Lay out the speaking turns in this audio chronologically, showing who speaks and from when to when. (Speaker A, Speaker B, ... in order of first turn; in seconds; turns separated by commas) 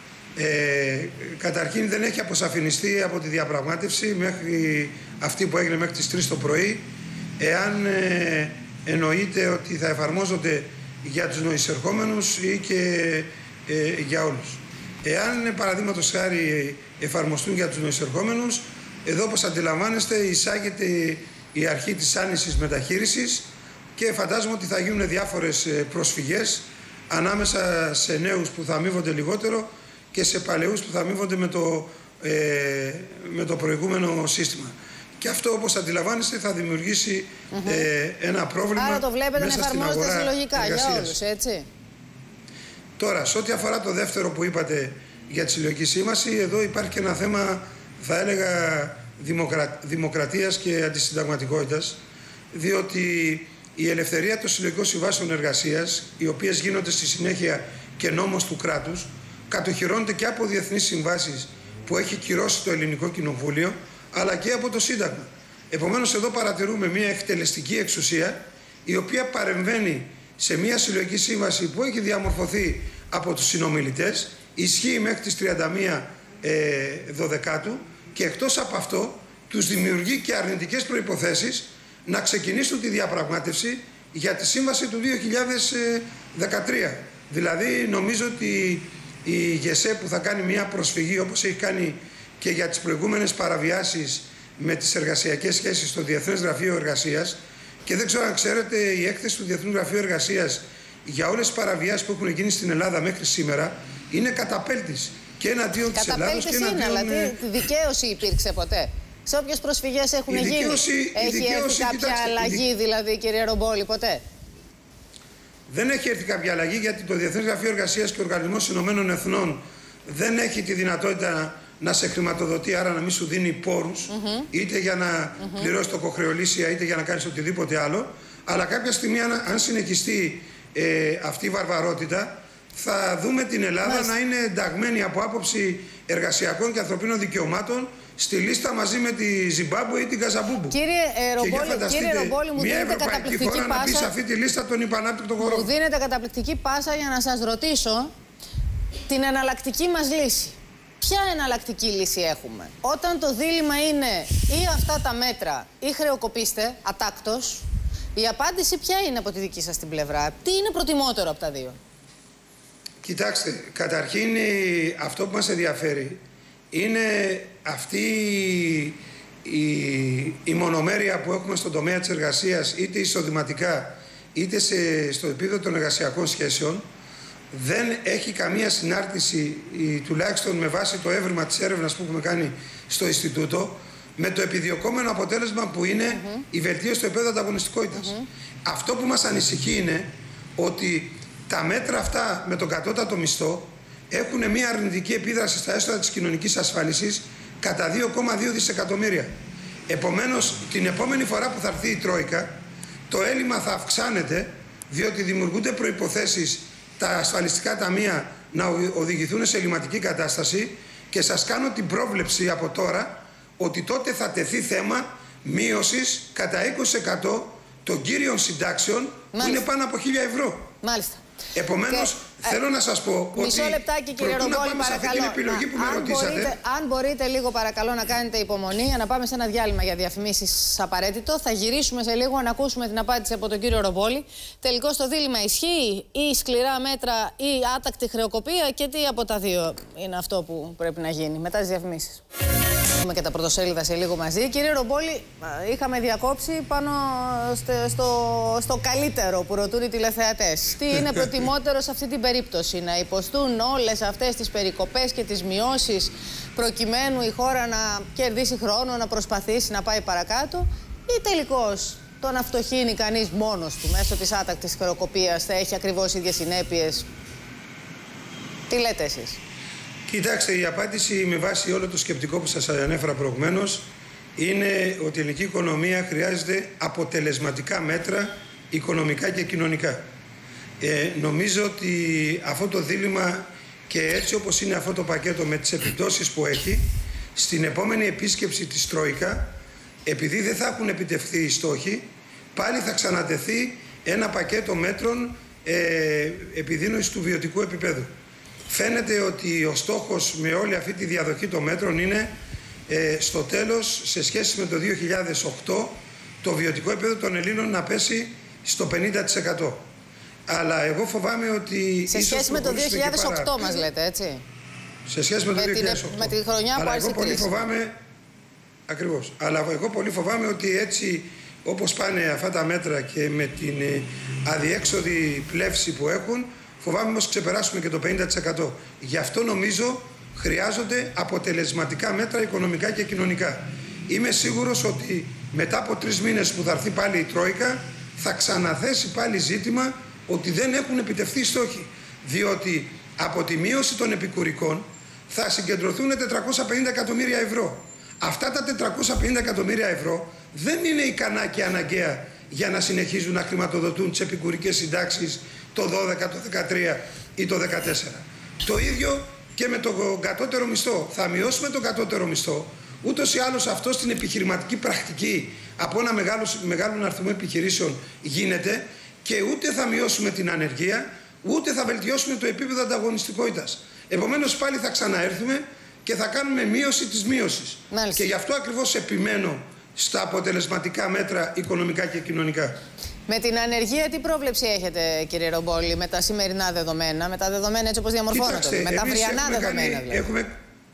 Speaker A: 0.4-41.2, Speaker B: 37.5-37.9, Speaker B: 38.8-41.7, Speaker A: 43.0-52.0, Speaker A: 52.5-107.4, Speaker B: 106.0-114.2, Speaker A: 110.3-112.6, Speaker A: 115.7-140.8, Speaker B: 124.1-124.5, Speaker B: 125.4-125.7, Speaker B: 133.8-134.1, Speaker B: 140.7-144.1, Speaker A: 141.4-145.7, Speaker B: 145.4-148.1, Speaker B: 149.1-161.8, Speaker A: 163.0-166.2, Speaker A: 166.7-176.8, Speaker A: 177.5-199.3, Speaker B: 186.1-186.4, Speaker B: 187.9-188.2, Speaker A: 199.9-202.6, Speaker A: 203.1-220.7, Speaker B: 219.3-219.6, Speaker B: 220.8-221.2, Speaker A: 221.6-226.6, Speaker B: 223.3-242.2, Speaker B: 243.0-267.1, Speaker B: 268.7-269.4, Speaker A: 270.1-280.0, Speaker A: 280.8-289.5, Speaker A: 290.1-298.1, Speaker A: 298.7-302.3, Speaker A: 302.9-309.8, Speaker A: 310.5-313.9, Speaker B: 312.1-314.4, Speaker A: 315.1-317.9, Speaker B: 315.6-317.5, Speaker A: 318.9-382.8, Speaker B: 377.9-378.2, Speaker B: 383.3-390.3, Speaker A: 388.3-390.5